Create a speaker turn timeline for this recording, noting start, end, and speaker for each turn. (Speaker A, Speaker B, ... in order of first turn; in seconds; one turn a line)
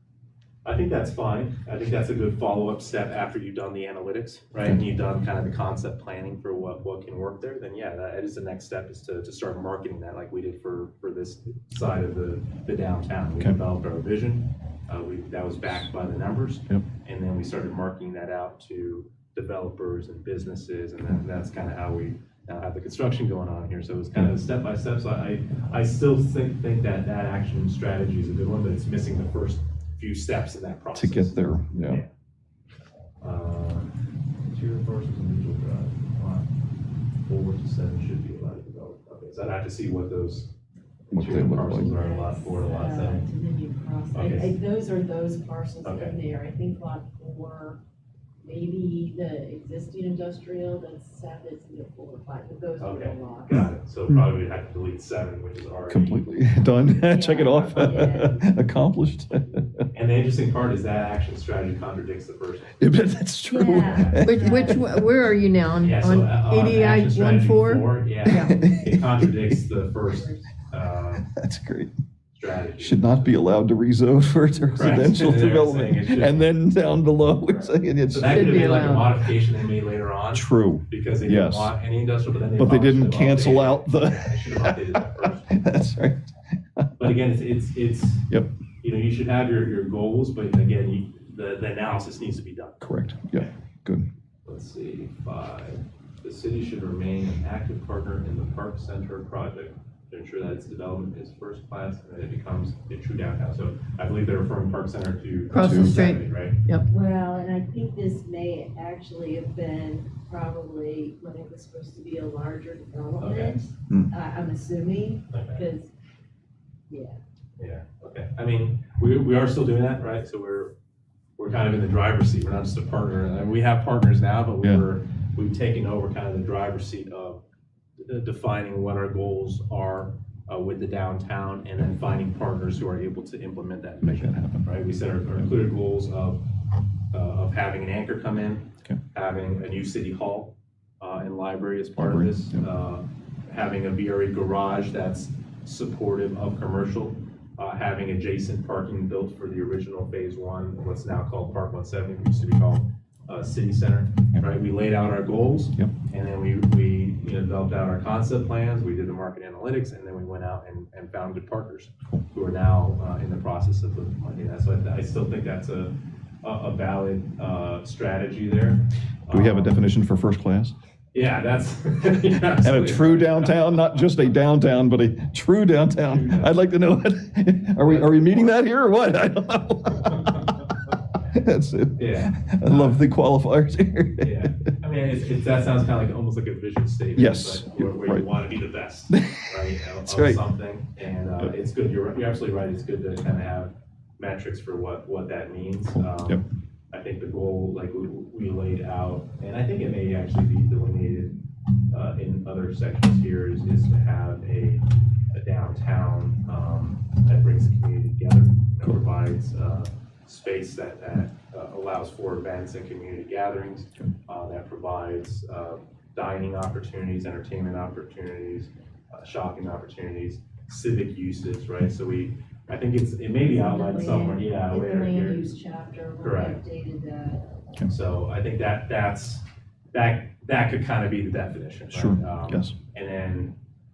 Speaker A: 0.7-32.1
Speaker B: 30.9-32.0
Speaker A: 33.2-33.9
Speaker A: 34.5-36.5
Speaker A: 37.2-40.5
Speaker B: 41.1-41.9
Speaker A: 41.1-43.2
Speaker C: 41.6-47.8
Speaker A: 44.1-44.5
Speaker A: 45.8-46.1
Speaker C: 48.4-53.7
Speaker A: 52.8-56.6
Speaker B: 53.5-54.3
Speaker B: 55.9-59.7
Speaker C: 57.0-58.7
Speaker A: 59.9-62.8
Speaker B: 62.8-65.0
Speaker C: 63.5-64.9
Speaker A: 63.8-64.2
Speaker D: 64.2-68.7
Speaker A: 65.8-71.3
Speaker B: 68.3-69.4
Speaker C: 70.2-70.4
Speaker B: 71.3-71.9
Speaker A: 72.3-73.6
Speaker B: 72.8-78.9
Speaker A: 74.7-76.5
Speaker A: 77.5-85.5
Speaker D: 78.3-79.1
Speaker B: 80.3-81.7
Speaker B: 82.6-86.9
Speaker A: 87.0-88.3
Speaker A: 88.8-92.8
Speaker B: 92.8-94.1
Speaker A: 94.5-106.6
Speaker D: 105.5-106.9
Speaker B: 105.5-106.0
Speaker C: 106.9-115.9
Speaker A: 113.2-113.6
Speaker A: 115.3-115.6
Speaker C: 116.9-117.2
Speaker A: 117.6-120.7
Speaker A: 121.4-127.4
Speaker A: 128.0-136.4
Speaker B: 134.0-134.7
Speaker A: 137.1-169.8
Speaker B: 142.0-142.6
Speaker B: 169.3-170.7
Speaker A: 171.1-173.9
Speaker B: 172.6-180.6
Speaker A: 176.0-176.6
Speaker A: 177.8-178.5
Speaker A: 180.1-180.5
Speaker B: 181.3-184.6
Speaker A: 182.0-183.0
Speaker A: 184.2-196.4
Speaker B: 187.2-188.3
Speaker B: 189.1-189.5
Speaker B: 190.1-190.4
Speaker B: 195.9-196.4
Speaker A: 196.9-201.4
Speaker A: 201.9-225.5
Speaker C: 223.4-227.7
Speaker A: 226.2-226.6
Speaker A: 227.9-233.6
Speaker B: 231.9-232.8